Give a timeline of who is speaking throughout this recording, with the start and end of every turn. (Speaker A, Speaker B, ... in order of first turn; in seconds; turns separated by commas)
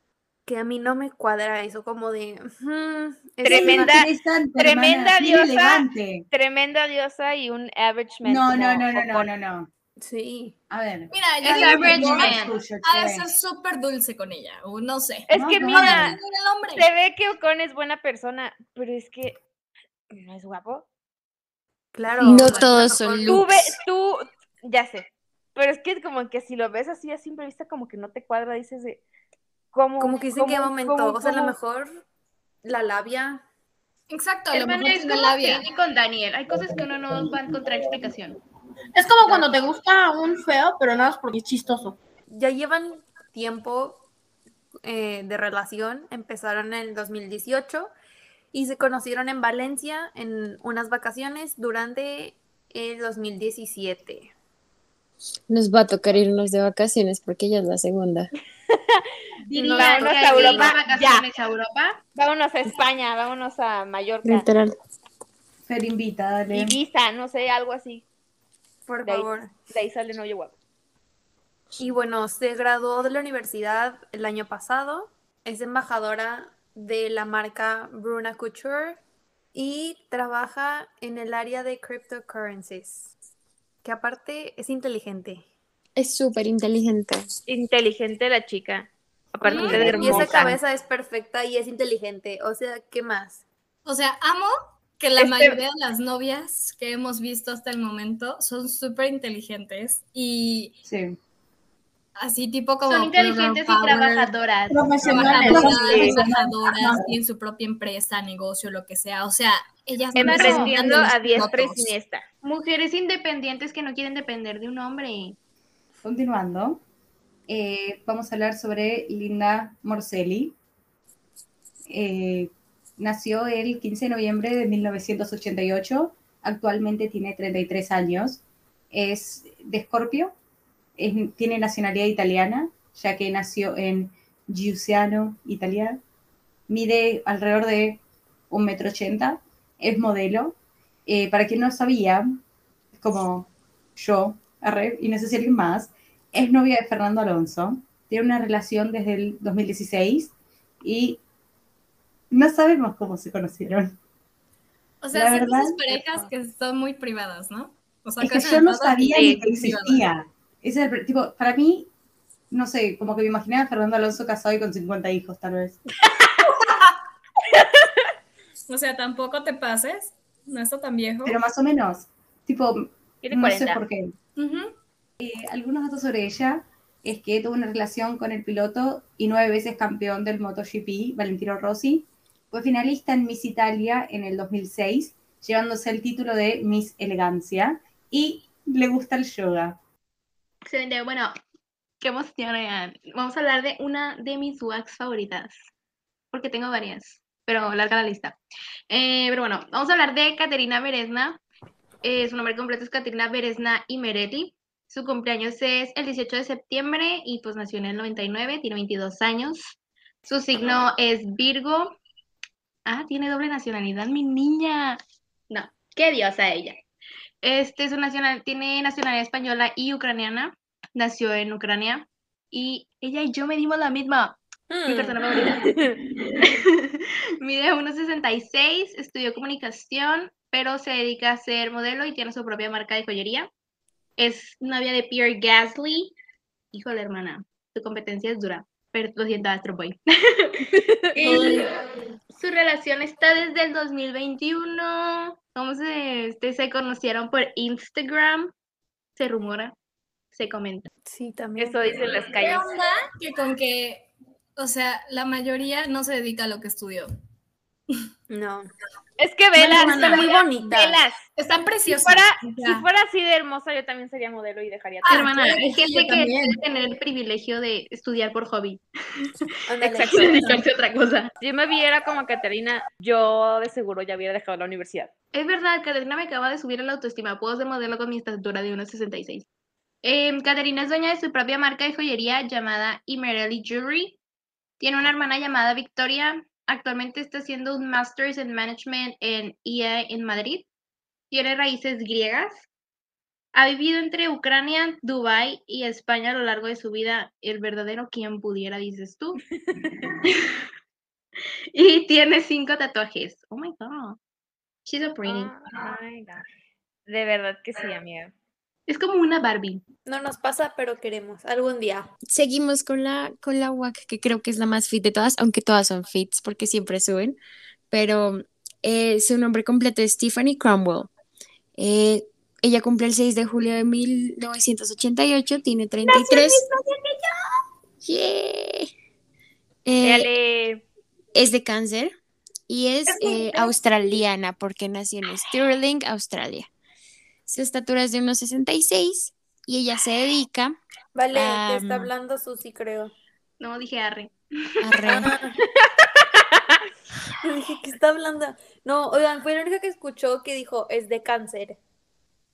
Speaker A: 0.5-4.0, Speaker B: 3.4-9.3, Speaker C: 3.5-6.2, Speaker C: 8.2-9.7, Speaker A: 10.0-10.6, Speaker C: 10.7-13.3, Speaker D: 11.1-16.9, Speaker E: 11.4-12.6, Speaker B: 15.3-16.2, Speaker C: 15.3-16.2, Speaker B: 16.8-19.4, Speaker B: 20.1-20.9, Speaker A: 21.9-23.5, Speaker F: 22.2-23.7, Speaker B: 23.3-29.0, Speaker B: 29.7-31.6, Speaker A: 30.0-32.0, Speaker A: 32.6-33.4, Speaker D: 34.1-35.7, Speaker E: 34.5-38.4, Speaker G: 39.0-42.0, Speaker A: 42.3-44.0, Speaker A: 44.8-47.9, Speaker A: 48.5-54.3, Speaker F: 55.5-58.3, Speaker B: 58.7-59.0, Speaker C: 59.5-60.0, Speaker A: 59.5-60.8, Speaker E: 59.5-62.0, Speaker B: 59.8-60.8, Speaker B: 62.1-64.5, Speaker F: 64.2-64.7, Speaker C: 65.7-66.8, Speaker B: 66.5-68.0, Speaker A: 68.9-69.5, Speaker B: 69.0-70.5, Speaker A: 71.8-79.0, Speaker A: 79.5-83.1, Speaker A: 83.8-85.4, Speaker F: 86.0-87.3, Speaker B: 87.5-90.6, Speaker C: 89.5-90.5, Speaker A: 89.5-93.4, Speaker D: 89.5-89.8, Speaker D: 93.8-100.8, Speaker B: 95.2-95.6, Speaker C: 100.8-101.2, Speaker D: 102.2-104.3, Speaker E: 102.8-106.3, Speaker C: 104.7-107.1, Speaker D: 105.0-111.9, Speaker E: 110.2-110.8, Speaker B: 110.2-112.2, Speaker E: 112.4-115.4, Speaker C: 116.0-116.8, Speaker C: 117.5-120.5, Speaker C: 121.9-130.3, Speaker C: 131.0-136.0, Speaker C: 136.7-142.4, Speaker C: 143.0-151.2, Speaker C: 152.3-154.0, Speaker D: 155.0-160.1, Speaker C: 155.1-155.8, Speaker C: 158.2-161.9, Speaker B: 159.2-159.4, Speaker C: 162.5-165.8, Speaker D: 166.4-166.9, Speaker D: 168.7-171.4, Speaker C: 171.2-174.1, Speaker B: 173.2-173.8, Speaker D: 174.4-174.7, Speaker C: 175.2-189.8, Speaker E: 190.7-191.3, Speaker E: 192.0-195.6, Speaker E: 196.3-198.4, Speaker E: 198.9-201.4, Speaker E: 202.0-209.7, Speaker E: 210.2-212.0, Speaker E: 212.9-215.0, Speaker E: 215.5-216.8, Speaker E: 217.4-225.7, Speaker A: 224.7-225.2, Speaker E: 226.4-233.5, Speaker E: 234.2-236.1, Speaker E: 236.7-241.7, Speaker E: 242.3-248.5, Speaker E: 249.2-249.8, Speaker E: 250.3-250.9, Speaker A: 251.1-251.8, Speaker B: 251.6-252.7, Speaker D: 252.3-257.1, Speaker A: 258.3-258.7, Speaker B: 259.2-261.2, Speaker A: 259.6-261.0, Speaker D: 259.8-260.2, Speaker D: 261.4-262.9, Speaker B: 261.9-265.2, Speaker D: 265.0-266.6, Speaker E: 265.1-268.8, Speaker A: 269.7-270.6, Speaker B: 269.8-270.4, Speaker E: 270.1-271.3, Speaker B: 271.4-275.1, Speaker E: 275.3-279.5, Speaker E: 280.0-284.2, Speaker E: 284.8-290.7, Speaker E: 291.3-292.7, Speaker E: 293.5-299.4, Speaker E: 300.2-300.5, Speaker E: 301.7-304.2, Speaker E: 304.9-305.6, Speaker B: 305.2-306.4, Speaker B: 307.1-308.3, Speaker E: 308.9-309.8, Speaker A: 310.1-312.1, Speaker F: 312.3-317.4, Speaker F: 317.9-321.1, Speaker F: 321.8-326.7, Speaker D: 326.0-327.4, Speaker F: 328.0-328.9, Speaker F: 329.9-330.3, Speaker B: 330.0-330.8, Speaker F: 331.3-332.1, Speaker F: 332.7-336.7, Speaker D: 333.1-333.6, Speaker F: 337.5-340.8, Speaker A: 341.1-343.1, Speaker F: 341.3-342.1, Speaker E: 343.6-344.8, Speaker F: 344.8-345.4, Speaker A: 345.1-345.6, Speaker A: 347.4-351.8